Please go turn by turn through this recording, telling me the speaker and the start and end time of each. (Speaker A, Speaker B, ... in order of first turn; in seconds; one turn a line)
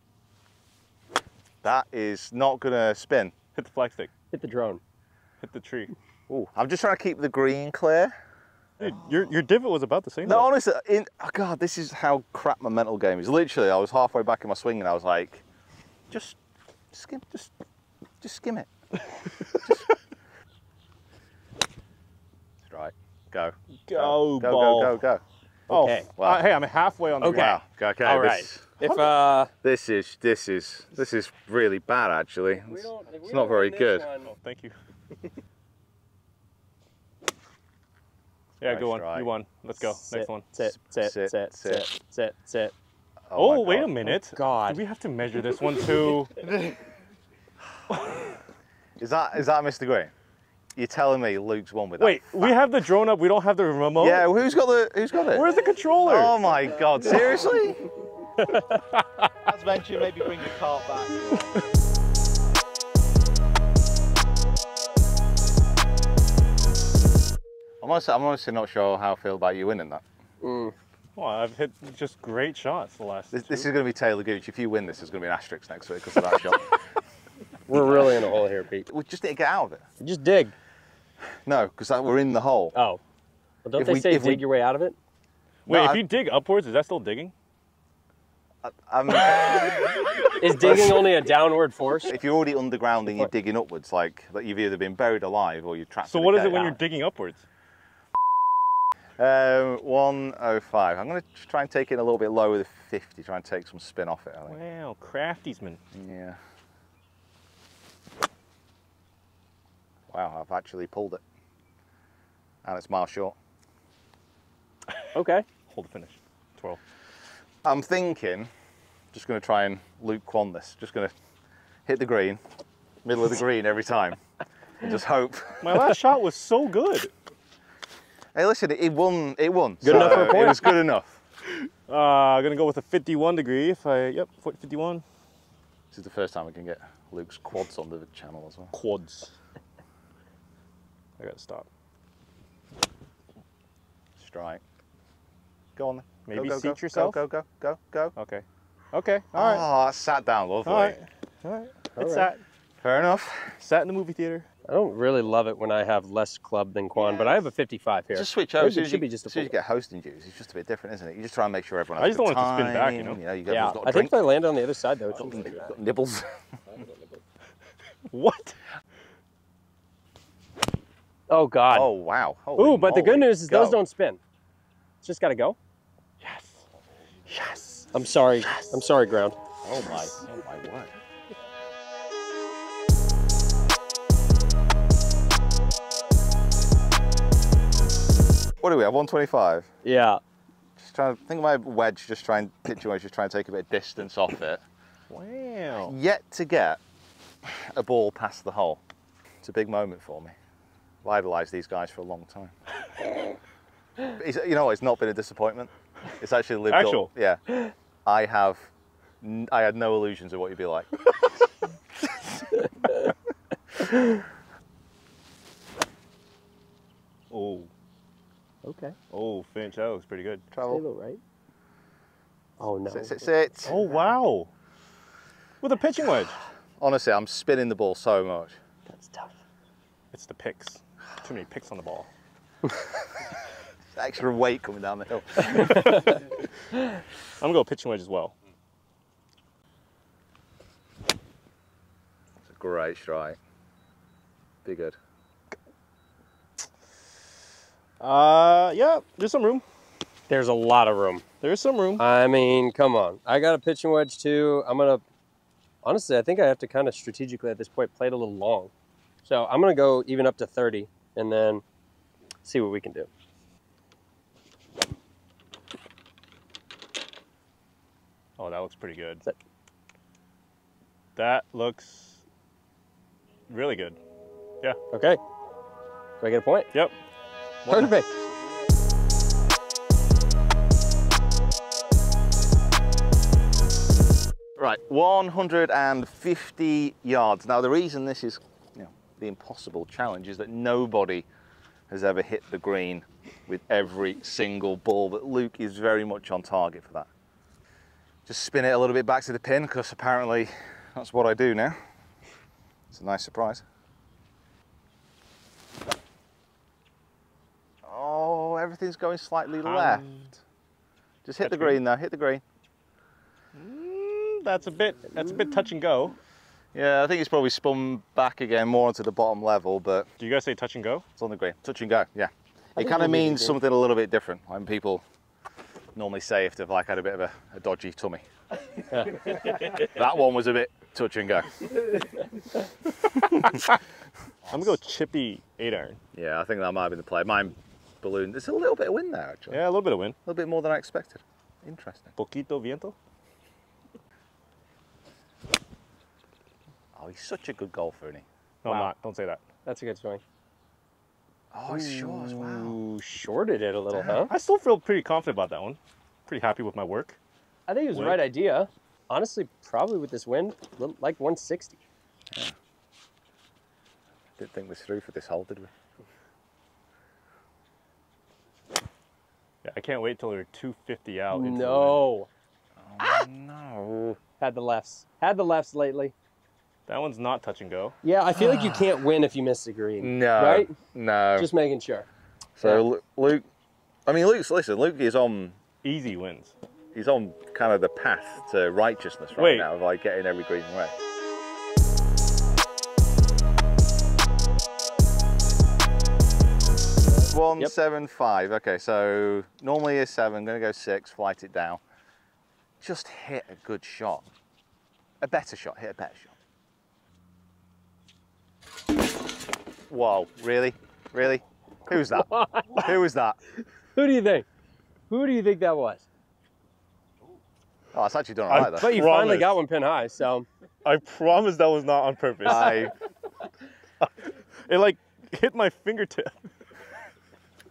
Speaker A: 1.6-3.3
Speaker B: 3.6-4.1
Speaker C: 4.3-4.8
Speaker B: 5.4-5.9
Speaker A: 6.3-8.2
Speaker B: 8.8-10.5
Speaker A: 10.2-15.4
Speaker A: 16.1-16.4
Speaker A: 16.9-17.5
Speaker A: 18.2-18.7
Speaker A: 19.6-19.9
Speaker A: 22.6-25.2
Speaker B: 23.9-25.0
Speaker C: 25.7-26.1
Speaker B: 25.7-27.6
Speaker A: 27.2-28.7
Speaker C: 28.0-29.5
Speaker A: 29.6-34.1
Speaker C: 32.5-34.3
Speaker B: 34.3-34.7
Speaker A: 38.6-39.3
Speaker B: 38.6-40.5
Speaker C: 40.0-42.7
Speaker A: 40.6-41.9
Speaker A: 43.3-43.9
Speaker B: 43.4-46.4
Speaker C: 44.0-44.8
Speaker B: 48.0-48.2
Speaker A: 49.0-50.1
Speaker A: 50.8-52.5
Speaker B: 52.0-54.3
Speaker A: 54.0-55.5
Speaker B: 55.3-56.4
Speaker A: 56.0-57.9
Speaker C: 58.4-58.8
Speaker A: 59.5-61.6
Speaker A: 67.8-70.0
Speaker C: 70.4-70.7
Speaker B: 71.2-73.7
Speaker A: 73.3-76.7
Speaker C: 77.7-78.9
Speaker A: 77.7-78.3
Speaker A: 78.9-79.8
Speaker C: 80.0-80.5
Speaker A: 81.5-82.7
Speaker C: 82.7-83.0
Speaker C: 83.6-85.0
Speaker A: 83.8-84.4
Speaker A: 85.7-86.0
Speaker B: 85.7-87.3
Speaker A: 88.6-91.1
Speaker C: 90.4-92.1
Speaker A: 92.1-96.8
Speaker B: 96.1-97.4
Speaker A: 99.2-104.6
Speaker B: 104.5-105.8
Speaker A: 105.9-106.4
Speaker A: 110.1-111.2
Speaker A: 112.6-113.4
Speaker C: 115.1-115.5
Speaker B: 115.7-116.8
Speaker A: 117.7-118.5
Speaker A: 119.1-121.1
Speaker A: 121.9-122.4
Speaker A: 123.0-124.2
Speaker A: 124.8-125.8
Speaker B: 125.6-127.1
Speaker A: 128.3-131.2
Speaker C: 129.8-130.7
Speaker B: 129.9-130.6
Speaker B: 131.5-135.0
Speaker A: 135.9-138.7
Speaker B: 138.7-139.3
Speaker B: 141.2-141.7
Speaker A: 144.2-144.6
Speaker A: 145.8-148.1
Speaker B: 146.3-147.2
Speaker B: 148.2-149.7
Speaker A: 149.3-151.0
Speaker B: 150.7-152.4
Speaker C: 152.0-152.3
Speaker A: 152.8-153.6
Speaker B: 153.6-154.5
Speaker C: 154.7-159.5
Speaker A: 158.1-164.3
Speaker B: 162.0-163.2
Speaker C: 163.5-165.8
Speaker A: 165.2-166.8
Speaker B: 168.1-168.6
Speaker C: 171.3-171.9
Speaker A: 171.7-173.8
Speaker C: 172.6-174.2
Speaker C: 175.0-175.6
Speaker B: 176.2-176.7
Speaker B: 177.3-177.9
Speaker C: 177.9-179.4
Speaker B: 178.4-178.7
Speaker A: 179.6-180.9
Speaker A: 188.6-189.7
Speaker C: 189.8-190.2
Speaker A: 190.8-194.6
Speaker B: 195.1-195.9
Speaker A: 195.8-196.8
Speaker A: 197.4-198.8
Speaker A: 199.4-200.3
Speaker A: 201.0-202.5
Speaker A: 204.0-207.4
Speaker B: 206.7-207.1
Speaker A: 208.1-210.9
Speaker A: 212.0-212.4
Speaker C: 212.6-213.1
Speaker C: 213.9-214.2
Speaker B: 217.3-217.7
Speaker C: 218.6-219.0
Speaker B: 219.1-220.4
Speaker A: 220.5-220.8
Speaker C: 220.7-221.2
Speaker C: 222.6-223.2
Speaker A: 222.9-224.0
Speaker B: 223.7-224.5
Speaker B: 225.6-226.4
Speaker A: 226.8-228.6
Speaker C: 228.9-229.4
Speaker B: 230.1-232.1
Speaker A: 233.9-236.0
Speaker B: 235.5-236.2
Speaker B: 237.4-238.3
Speaker A: 242.4-243.4
Speaker A: 244.7-245.0
Speaker B: 248.0-249.6
Speaker C: 250.3-251.2
Speaker B: 251.4-252.0
Speaker C: 252.0-255.0
Speaker C: 255.8-258.7
Speaker C: 259.2-261.6
Speaker C: 262.4-263.1
Speaker B: 268.4-269.2
Speaker B: 271.2-272.2
Speaker B: 273.5-274.0
Speaker C: 274.9-275.2
Speaker C: 276.2-276.7
Speaker B: 277.6-277.9
Speaker C: 277.7-278.2
Speaker A: 284.6-291.3
Speaker A: 291.9-297.1
Speaker A: 298.3-301.8
Speaker A: 302.9-303.6
Speaker A: 307.9-310.1
Speaker B: 309.6-310.3
Speaker A: 311.2-312.4
Speaker B: 311.4-311.8
Speaker B: 313.6-316.2
Speaker A: 316.7-320.1
Speaker B: 320.2-321.1
Speaker A: 321.2-325.0
Speaker C: 322.8-323.6
Speaker A: 325.9-328.2
Speaker C: 328.9-329.6
Speaker A: 329.2-331.7
Speaker A: 333.3-333.6
Speaker A: 334.5-334.8
Speaker B: 334.5-336.0
Speaker A: 336.1-339.6
Speaker B: 339.5-340.2
Speaker A: 340.2-342.1
Speaker B: 342.2-342.9
Speaker A: 347.0-348.2
Speaker B: 348.6-349.4
Speaker C: 349.6-350.2
Speaker A: 351.5-352.8
Speaker C: 351.7-354.3
Speaker A: 353.9-354.2
Speaker B: 354.3-357.2
Speaker C: 357.7-361.8
Speaker B: 357.9-358.2
Speaker A: 364.4-365.7
Speaker B: 369.6-372.0
Speaker C: 371.3-372.3
Speaker A: 372.9-374.2
Speaker C: 374.4-376.1
Speaker B: 376.9-378.0
Speaker C: 378.0-380.8
Speaker A: 378.4-379.0
Speaker A: 380.0-381.5
Speaker C: 381.4-382.1
Speaker A: 382.6-383.4
Speaker A: 384.1-385.6
Speaker B: 385.8-386.6
Speaker A: 386.9-390.9
Speaker B: 389.4-389.7
Speaker A: 397.3-401.8
Speaker A: 402.8-404.3
Speaker A: 405.2-406.3
Speaker A: 409.9-413.4
Speaker C: 412.1-412.9
Speaker C: 413.9-414.5
Speaker C: 415.1-416.1
Speaker A: 417.9-419.0
Speaker B: 418.5-419.6
Speaker C: 418.8-420.5
Speaker B: 420.8-422.9
Speaker A: 422.4-422.9
Speaker B: 424.7-426.4